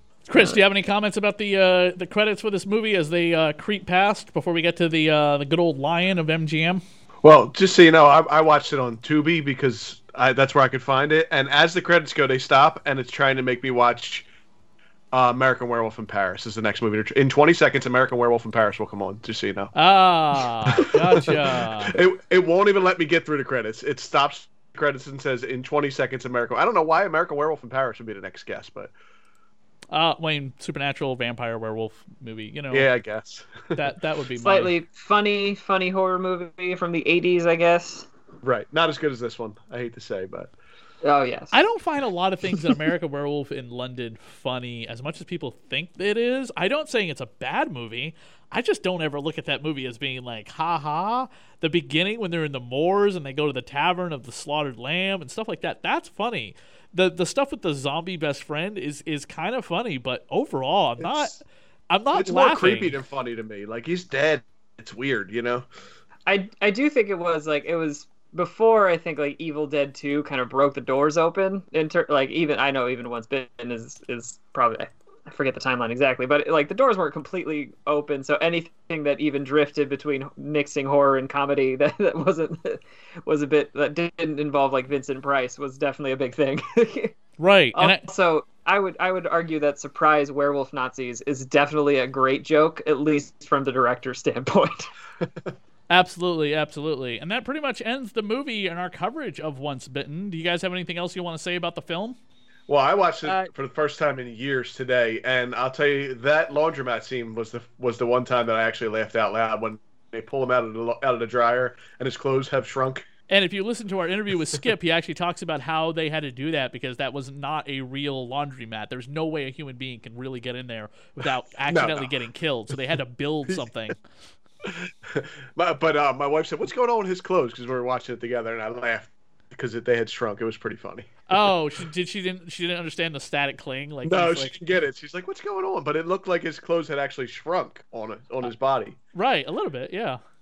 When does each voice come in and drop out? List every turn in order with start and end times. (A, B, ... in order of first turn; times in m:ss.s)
0:00.3-0:06.8 A
0:07.2-0:14.3 B
0:15.1-0:19.7 B
0:19.8-0:21.9 A
0:20.8-0:21.4 B
0:21.9-0:28.9 B
0:29.9-0:32.9 A
0:32.7-0:33.8 B
0:33.8-0:34.7 A
0:34.4-0:38.1 C
0:38.4-0:40.5 B
0:41.0-0:41.6 C
0:41.5-1:03.0 A
1:01.0-1:01.3 B
1:02.1-1:05.7 B
1:06.3-1:27.1 C
1:27.4-1:28.0 A
1:27.7-1:34.9 C
1:35.9-1:42.2 A
1:42.7-1:53.0 B
1:43.2-1:43.5 C
1:53.3-2:04.0 A
2:01.7-2:02.1 B
2:04.6-2:11.4 B
2:11.3-2:14.6 A
2:14.0-2:19.0 B
2:19.2-2:20.2 A